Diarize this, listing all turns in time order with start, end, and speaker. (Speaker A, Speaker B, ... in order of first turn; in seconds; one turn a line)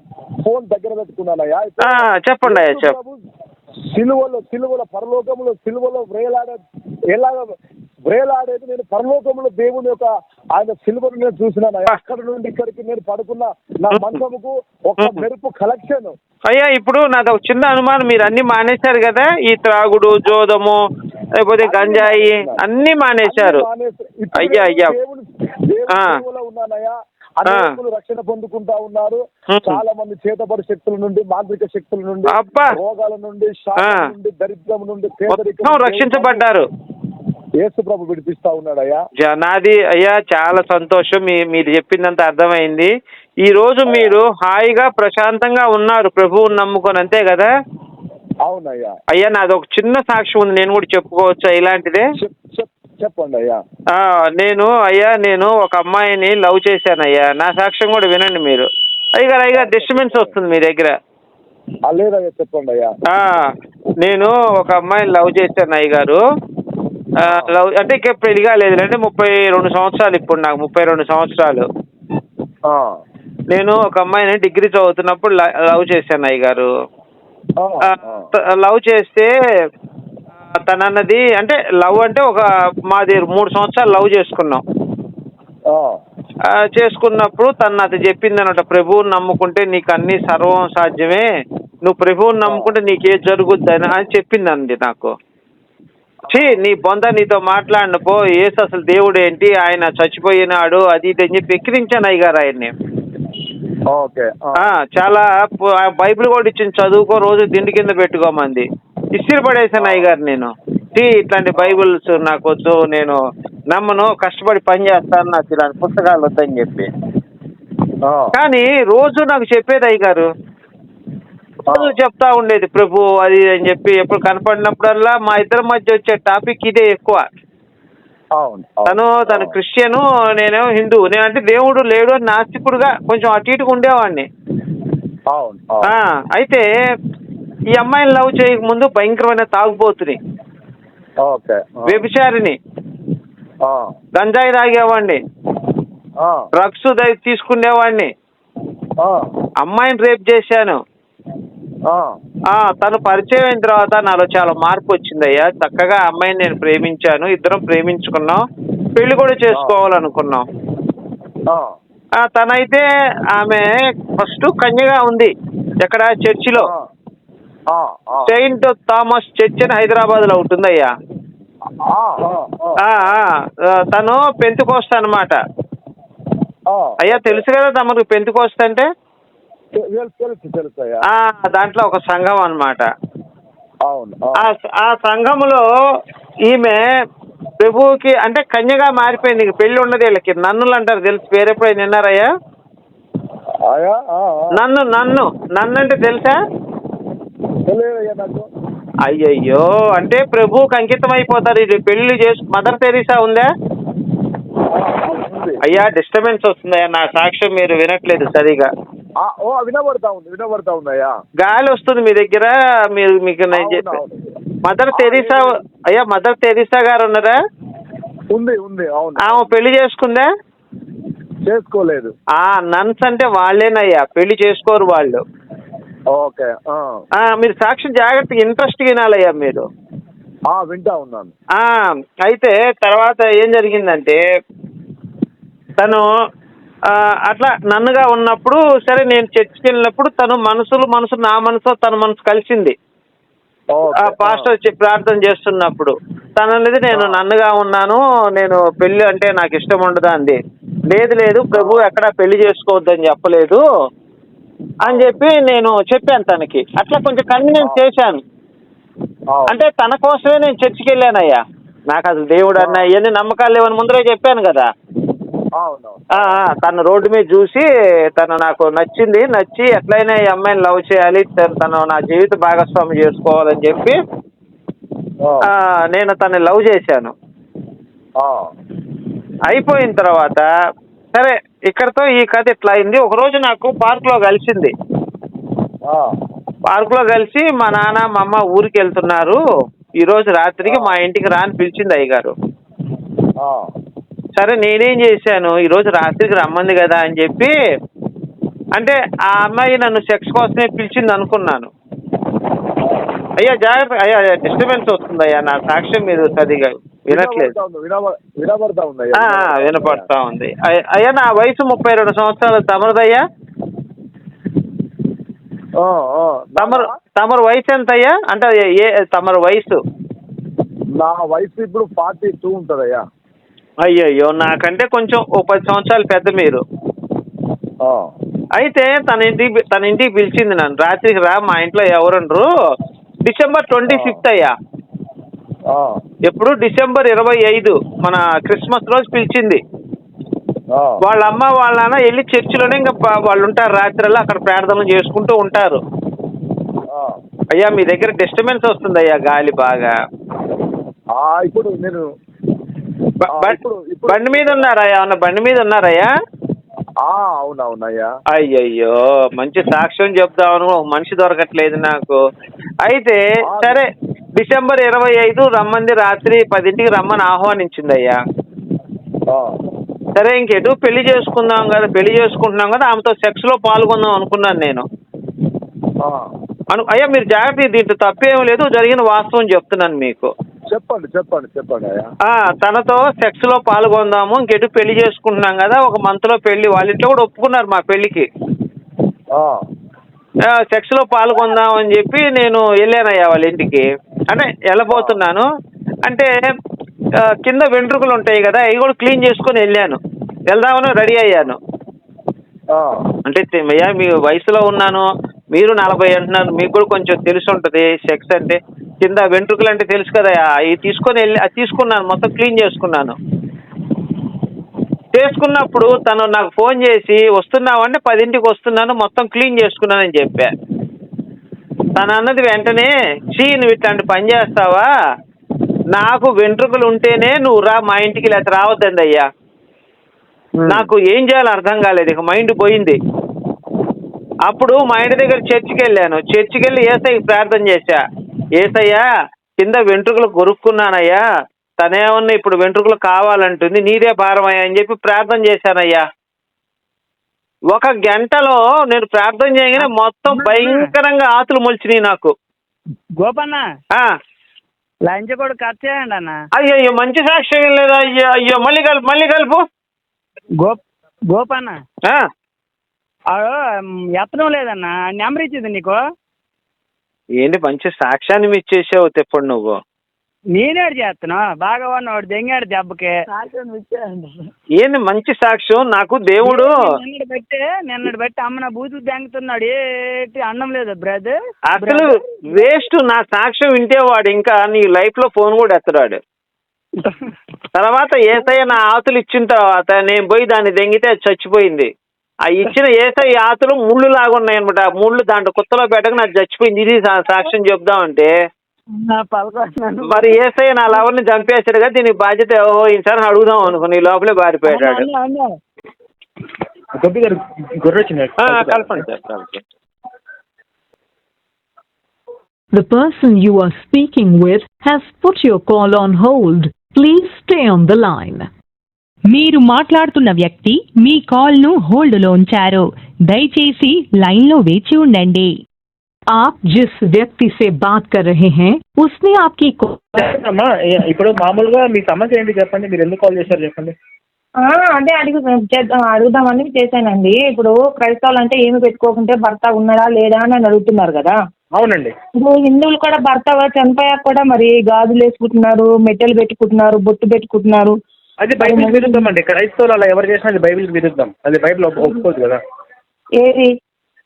Speaker A: 0.4-3.2
Speaker B: 1.9-2.9
Speaker A: 3.9-6.6
Speaker A: 7.1-7.5
Speaker A: 8.1-16.1
Speaker B: 15.0-15.2
Speaker B: 16.5-20.8
Speaker B: 21.4-23.6
Speaker A: 21.6-22.6
Speaker A: 23.2-36.4
Speaker B: 24.4-24.9
Speaker B: 27.5-27.7
Speaker B: 29.5-29.8
Speaker B: 32.3-32.7
Speaker B: 33.8-34.1
Speaker B: 35.3-36.6
Speaker A: 37.6-39.0
Speaker B: 39.2-42.9
Speaker B: 43.4-47.5
Speaker A: 43.9-44.1
Speaker A: 48.4-48.9
Speaker B: 49.1-52.0
Speaker A: 52.2-53.6
Speaker B: 53.9-60.9
Speaker A: 59.5-60.3
Speaker A: 61.9-62.9
Speaker B: 63.1-63.5
Speaker B: 64.0-66.2
Speaker A: 67.2-67.5
Speaker B: 67.2-71.7
Speaker A: 72.7-73.0
Speaker B: 73.5-76.7
Speaker A: 77.6-78.3
Speaker B: 78.3-79.3
Speaker B: 80.7-84.6
Speaker A: 85.7-86.0
Speaker B: 86.5-91.2
Speaker B: 91.8-95.1
Speaker A: 92.4-92.7
Speaker A: 96.2-96.6
Speaker B: 96.3-102.7
Speaker A: 103.9-104.7
Speaker B: 104.6-113.2
Speaker A: 109.8-110.1
Speaker A: 111.5-111.8
Speaker B: 113.7-116.9
Speaker A: 118.0-118.3
Speaker B: 118.3-120.2
Speaker A: 121.7-121.9
Speaker B: 121.7-127.2
Speaker A: 128.3-129.5
Speaker B: 128.9-134.3
Speaker A: 135.3-135.9
Speaker B: 135.8-136.7
Speaker B: 137.8-140.2
Speaker A: 141.2-142.0
Speaker B: 141.9-142.6
Speaker A: 143.6-143.9
Speaker B: 144.2-145.2
Speaker A: 146.2-146.5
Speaker B: 146.6-148.1
Speaker A: 149.0-149.3
Speaker B: 149.6-150.8
Speaker A: 151.9-152.2
Speaker B: 152.5-158.4
Speaker B: 158.9-160.4
Speaker A: 161.5-161.8
Speaker B: 162.2-162.8
Speaker B: 163.3-166.7
Speaker A: 166.6-166.9
Speaker A: 167.7-168.3
Speaker B: 168.3-170.9
Speaker A: 171.9-172.8
Speaker B: 172.8-173.3
Speaker B: 173.9-175.3
Speaker A: 176.7-177.4
Speaker B: 177.0-178.8
Speaker A: 179.7-181.0
Speaker B: 181.1-182.8
Speaker A: 183.8-184.4
Speaker B: 184.4-185.6
Speaker B: 186.5-186.8
Speaker B: 187.6-192.3
Speaker A: 193.7-194.5
Speaker B: 194.6-196.3
Speaker A: 197.7-198.4
Speaker B: 199.1-203.5
Speaker A: 204.7-205.6
Speaker B: 205.7-208.7
Speaker A: 209.2-211.1
Speaker B: 211.4-213.9
Speaker A: 213.5-214.3
Speaker B: 214.7-217.3
Speaker A: 214.9-215.5
Speaker A: 218.3-219.5
Speaker B: 219.3-220.3
Speaker A: 221.4-222.1
Speaker B: 222.4-225.2
Speaker A: 226.1-227.0
Speaker B: 227.2-229.6
Speaker A: 230.5-231.3
Speaker B: 231.6-234.2
Speaker B: 235.8-236.1
Speaker B: 236.9-242.7
Speaker A: 243.7-244.5
Speaker B: 244.0-250.4
Speaker A: 246.9-247.2
Speaker B: 250.9-253.6
Speaker A: 251.5-251.9
Speaker A: 254.8-255.1
Speaker B: 254.8-258.2
Speaker A: 259.3-259.6
Speaker B: 259.5-261.4
Speaker B: 261.9-264.7
Speaker A: 262.6-262.8
Speaker A: 265.6-266.4
Speaker B: 266.2-267.6
Speaker B: 268.1-274.0
Speaker A: 275.2-275.5
Speaker B: 275.5-277.1
Speaker A: 278.2-278.5
Speaker B: 279.5-280.5
Speaker B: 281.1-284.7
Speaker B: 286.7-289.4
Speaker B: 290.0-292.3
Speaker A: 290.6-290.9
Speaker A: 293.4-293.7
Speaker B: 294.4-297.5
Speaker B: 298.8-301.7
Speaker B: 303.4-307.5
Speaker A: 307.1-310.1
Speaker B: 309.2-313.2
Speaker A: 315.8-316.9
Speaker B: 316.6-319.7
Speaker A: 321.0-323.0
Speaker B: 323.9-326.6
Speaker A: 327.8-328.1
Speaker B: 328.6-332.4
Speaker B: 333.2-334.5
Speaker A: 333.9-334.2
Speaker A: 335.7-336.0
Speaker B: 336.3-339.6
Speaker A: 340.7-341.0
Speaker B: 341.0-345.8
Speaker A: 346.9-347.2
Speaker B: 347.6-349.9
Speaker A: 351.1-352.0
Speaker B: 353.2-353.6
Speaker A: 353.3-354.7
Speaker B: 354.1-356.1
Speaker A: 357.0-358.1
Speaker B: 358.4-362.2
Speaker B: 362.9-363.8
Speaker A: 363.4-363.8
Speaker B: 364.4-368.1
Speaker A: 369.3-369.6
Speaker B: 370.1-374.8
Speaker A: 376.0-376.3
Speaker B: 376.7-380.3
Speaker A: 380.7-382.1
Speaker B: 382.3-388.2
Speaker A: 389.3-389.6
Speaker B: 390.7-395.4
Speaker A: 394.9-395.2
Speaker B: 396.1-396.3
Speaker B: 397.4-400.0
Speaker B: 400.5-401.6
Speaker A: 402.7-403.0
Speaker B: 403.3-405.0
Speaker B: 405.6-413.1
Speaker B: 415.1-420.5
Speaker B: 421.9-424.9
Speaker B: 425.9-429.2
Speaker A: 430.6-430.9
Speaker B: 430.7-432.9
Speaker B: 434.5-438.0
Speaker B: 438.6-439.0
Speaker B: 439.6-441.2
Speaker B: 441.8-446.0
Speaker B: 447.7-452.3
Speaker C: 449.8-450.9
Speaker C: 453.2-453.6
Speaker C: 455.1-456.4
Speaker B: 456.6-459.6
Speaker C: 460.6-461.8
Speaker C: 463.3-466.0
Speaker B: 467.4-469.7
Speaker C: 470.5-474.3
Speaker B: 474.8-476.8
Speaker C: 476.4-482.7
Speaker B: 481.7-486.2
Speaker B: 487.7-491.9
Speaker B: 492.4-498.3
Speaker C: 499.1-500.4
Speaker B: 500.1-505.0
Speaker C: 504.7-505.3
Speaker D: 506.9-509.1
Speaker B: 508.4-509.6
Speaker E: 512.7-518.5
Speaker F: 519.3-525.6
Speaker E: 526.3-530.0
Speaker D: 530.1-533.9
Speaker G: 534.6-541.3
Speaker D: 541.8-542.1
Speaker G: 542.4-547.9
Speaker D: 548.4-552.6
Speaker G: 548.6-549.3
Speaker G: 553.4-553.7